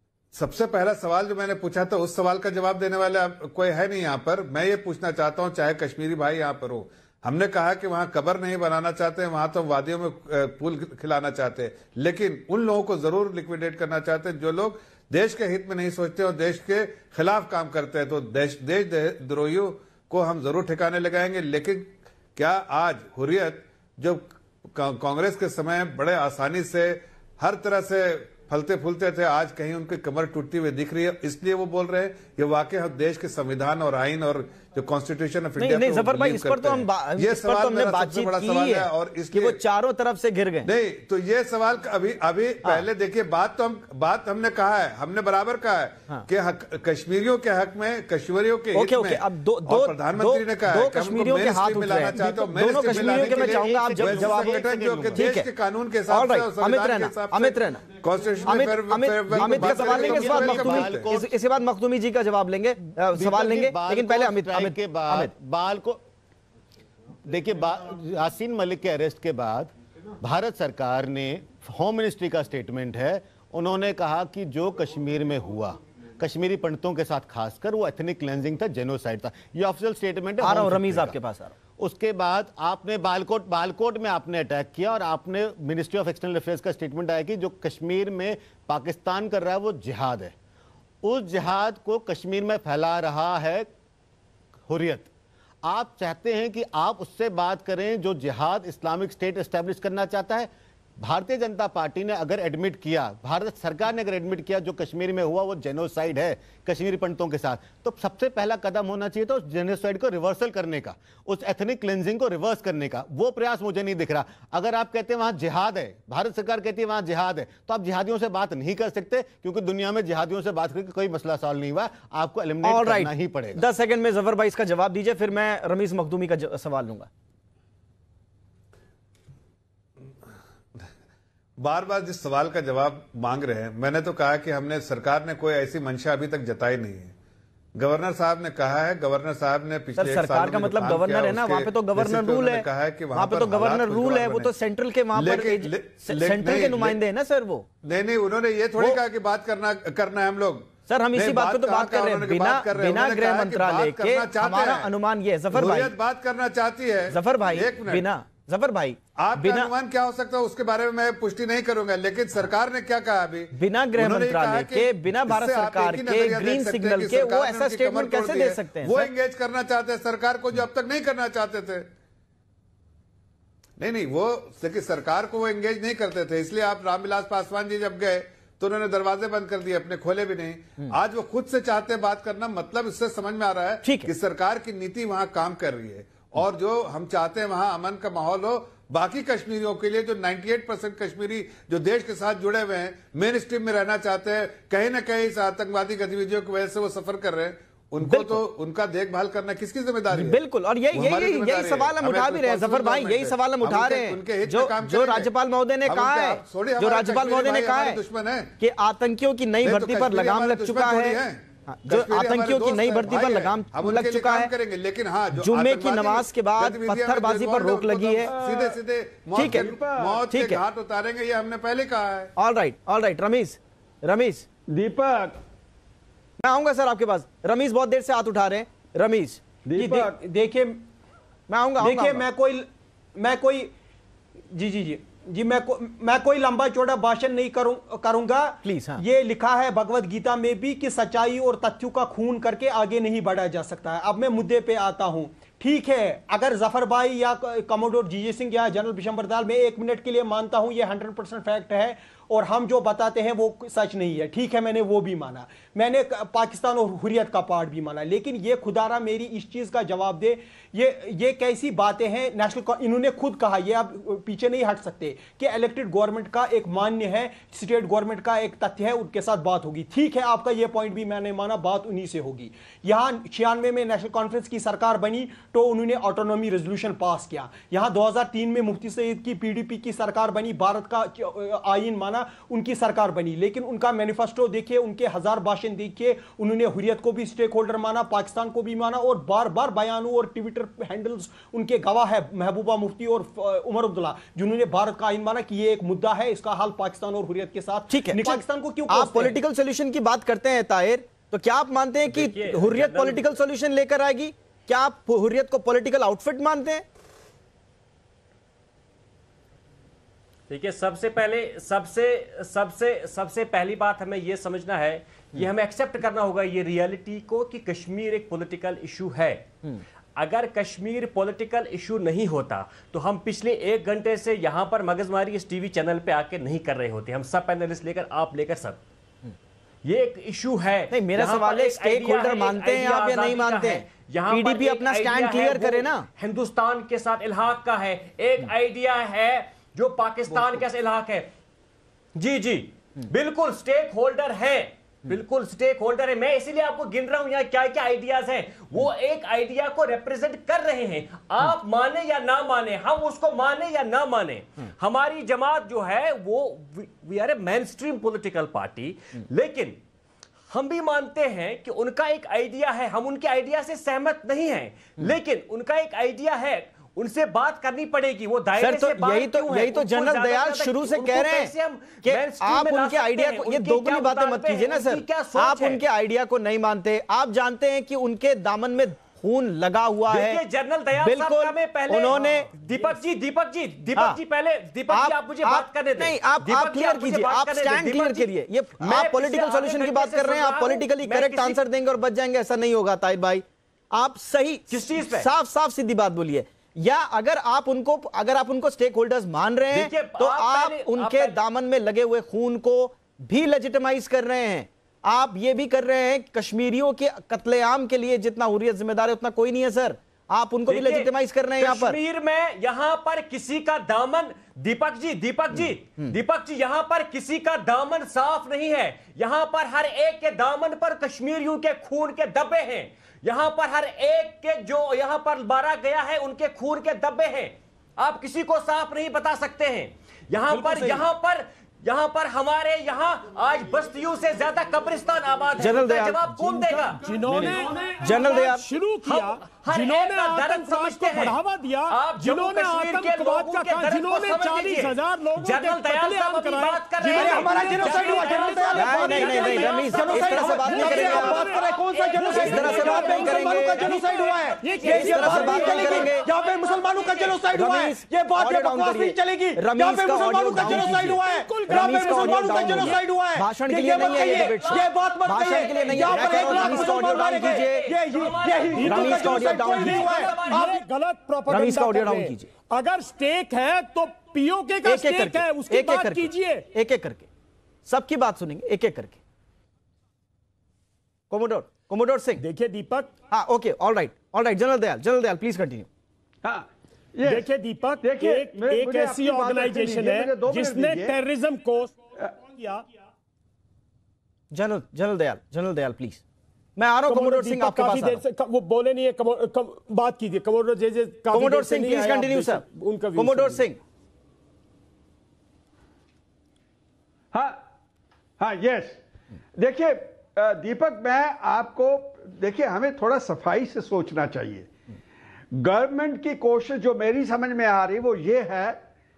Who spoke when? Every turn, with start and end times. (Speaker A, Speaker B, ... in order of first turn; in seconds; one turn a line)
Speaker A: 0.3-39.6
Speaker B: 35.6-40.7
Speaker A: 40.6-61.1
Speaker B: 48.7-55.5
Speaker C: 52.7-55.4
Speaker B: 56.1-57.8
Speaker B: 58.4-65.3
Speaker C: 59.3-61.3
Speaker C: 63.1-66.0
Speaker C: 67.2-81.2
Speaker B: 80.4-81.5
Speaker C: 81.8-90.3
Speaker C: 91.0-93.7
Speaker C: 94.7-95.1
Speaker C: 95.6-100.5
Speaker C: 101.0-123.6
Speaker B: 122.6-127.1
Speaker A: 131.6-137.1
Speaker A: 137.7-144.5
Speaker B: 139.9-147.7
Speaker A: 145.1-147.0
Speaker A: 147.8-154.9
Speaker B: 150.9-155.9
Speaker A: 155.5-158.0
Speaker B: 157.1-159.7
Speaker A: 159.2-171.9
Speaker B: 163.5-169.1
Speaker A: 173.8-205.3
Speaker B: 183.8-184.1
Speaker B: 198.0-198.4
Speaker B: 200.1-208.0
Speaker A: 205.9-208.5
Speaker B: 208.6-214.5
Speaker A: 209.6-222.3
Speaker B: 215.3-218.3
Speaker D: 218.2-218.8
Speaker B: 219.3-219.7
Speaker D: 219.4-220.2
Speaker B: 220.3-220.6
Speaker B: 222.4-224.5
Speaker D: 224.7-225.4
Speaker B: 226.4-230.1
Speaker D: 229.6-230.1
Speaker E: 229.8-230.8
Speaker B: 231.5-232.2
Speaker E: 231.8-233.7
Speaker E: 234.5-299.4
Speaker B: 238.6-239.0
Speaker B: 297.9-306.8
Speaker F: 302.1-303.3
Speaker F: 310.5-319.5
Speaker F: 320.1-328.8
Speaker F: 329.8-341.3
Speaker B: 330.9-336.1
Speaker F: 342.1-359.8
Speaker F: 360.5-375.8
Speaker B: 368.6-380.4
Speaker F: 380.1-391.6
Speaker B: 380.9-382.5
Speaker B: 384.9-412.0
Speaker F: 394.7-395.3
Speaker F: 399.7-401.4
Speaker F: 410.7-437.5
Speaker B: 415.6-416.1
Speaker E: 430.7-431.0
Speaker B: 435.6-438.6
Speaker G: 437.0-456.1
Speaker E: 437.2-437.5
Speaker F: 439.0-441.4
Speaker F: 441.9-450.4
Speaker E: 447.0-470.8
Speaker B: 448.7-451.5
Speaker F: 450.9-451.2
Speaker F: 451.8-457.4
Speaker B: 452.3-453.9
Speaker B: 454.8-456.2
Speaker B: 457.5-467.9
Speaker G: 460.2-463.0
Speaker G: 464.0-464.8
Speaker F: 465.7-466.7
Speaker G: 465.9-467.6
Speaker F: 467.6-470.8
Speaker G: 468.7-476.6
Speaker B: 468.8-470.2
Speaker B: 471.5-472.5
Speaker B: 474.8-477.3
Speaker B: 477.9-479.2
Speaker B: 481.3-482.4
Speaker G: 482.4-483.1
Speaker B: 483.3-485.9
Speaker D: 486.4-487.5
Speaker G: 487.2-492.9
Speaker D: 488.0-491.2
Speaker B: 494.5-496.2
Speaker B: 496.8-498.2
Speaker G: 497.1-503.6
Speaker B: 501.3-502.6
Speaker B: 503.1-503.8
Speaker D: 507.3-507.6
Speaker D: 508.4-509.0
Speaker D: 509.6-514.7
Speaker D: 515.5-518.8